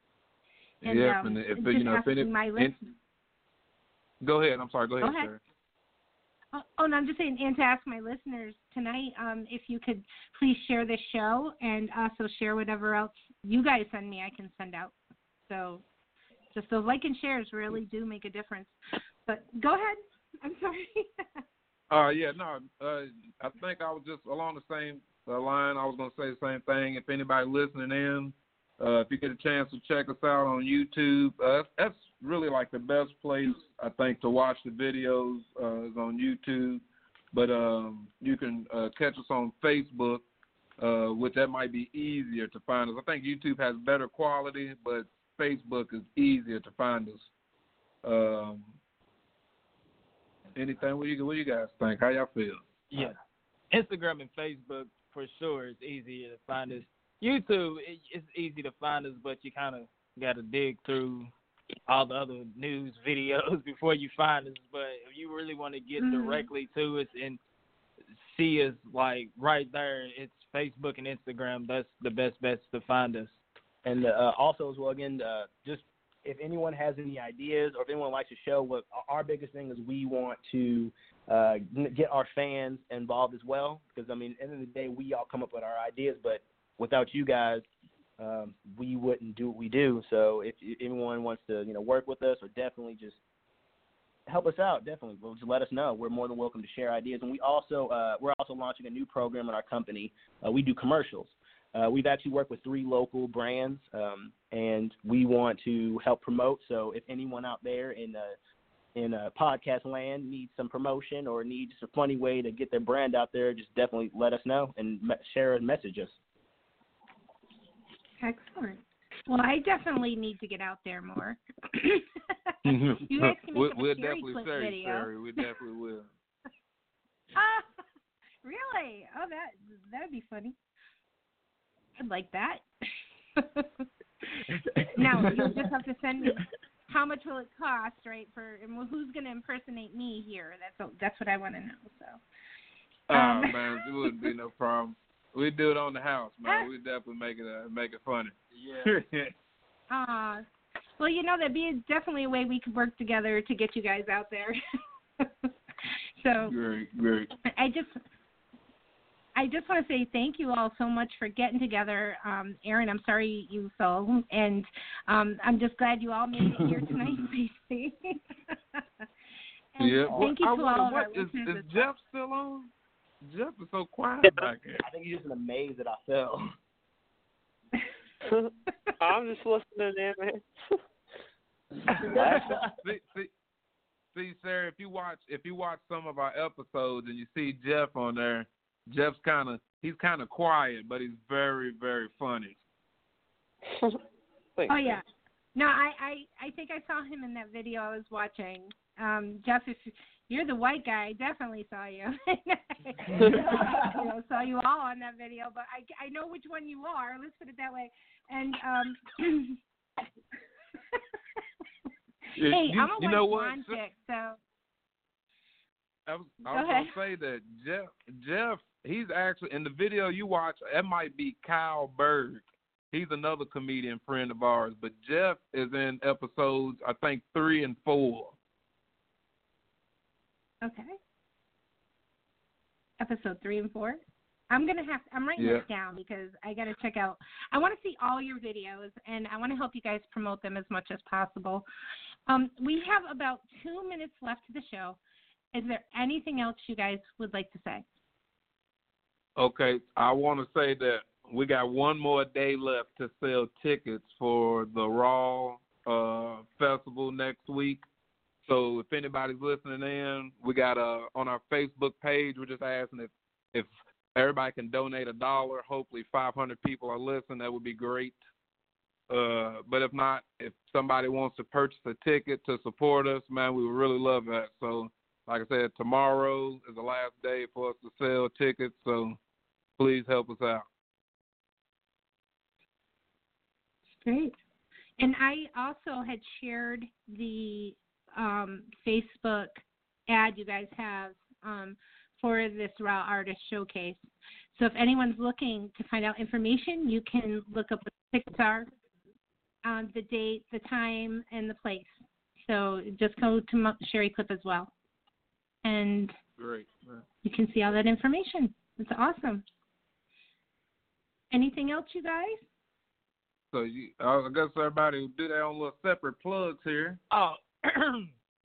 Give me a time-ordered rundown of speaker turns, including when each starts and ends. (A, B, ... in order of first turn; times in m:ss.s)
0:00.8-0:02.8 A
0:00.8-0:02.8 B
0:04.2-0:05.4 A
0:05.0-0:05.3 B
0:06.5-0:15.0 B
0:15.5-0:15.8 B
0:16.5-0:18.8 B
0:19.3-0:21.2 B
0:21.9-0:40.2 A
0:40.8-0:47.3 A
0:48.0-0:48.8 A
0:50.6-0:53.1 A
0:53.7-1:01.3 C
1:01.9-1:07.4 C
1:06.0-1:06.5 B
1:08.2-1:13.4 C
1:13.8-1:27.7 D
1:28.2-1:33.2 D
1:34.3-1:48.4 D
1:49.0-1:56.2 D
1:58.2-2:05.5 B
2:02.7-2:06.1 A
2:07.4-2:07.8 B
2:08.4-2:10.6 B
2:12.0-2:12.6 B
2:13.4-2:13.8 B
2:14.5-2:15.6 D
2:15.0-2:22.2 B
2:23.1-2:29.3 A
2:23.1-2:24.3 B
2:26.4-2:26.7 B
2:28.5-2:29.0 C
2:29.9-2:30.4 B
2:31.0-2:34.6 B
2:35.2-2:35.5 B
2:36.2-2:36.6 B
2:36.4-2:37.3 A
2:37.5-2:38.0 B
2:39.4-2:48.2 B
2:49.8-2:51.9 B
2:49.8-2:52.7 A
2:53.2-2:54.8 A
2:54.8-2:56.4 D
2:58.2-3:00.8 E
3:02.0-3:02.5 E
3:02.0-3:02.8 D
3:02.2-3:03.3 A
3:04.1-3:12.6 A
3:14.7-3:15.0 B
3:15.6-3:29.6 B
3:23.2-3:24.0 D
3:32.4-3:33.8 A
3:32.4-3:34.4 B
3:36.1-3:48.4 A
3:36.5-3:37.0 B
3:50.6-3:51.0 B
3:53.0-4:01.7 B
3:55.4-3:55.6 A
4:02.3-4:05.0 B
4:05.5-4:07.8 B
4:09.4-4:17.8 A
4:18.4-4:28.2 A
4:29.1-4:39.2 A
4:39.8-4:40.6 A
4:44.0-4:44.4 B
4:45.0-4:54.0 B
4:54.5-4:58.7 B
4:59.6-5:04.7 B
5:05.6-5:06.2 B
5:06.4-5:07.0 A
5:07.2-5:09.4 B
5:11.3-5:12.4 B
5:13.5-5:17.0 A
5:17.1-5:18.1 C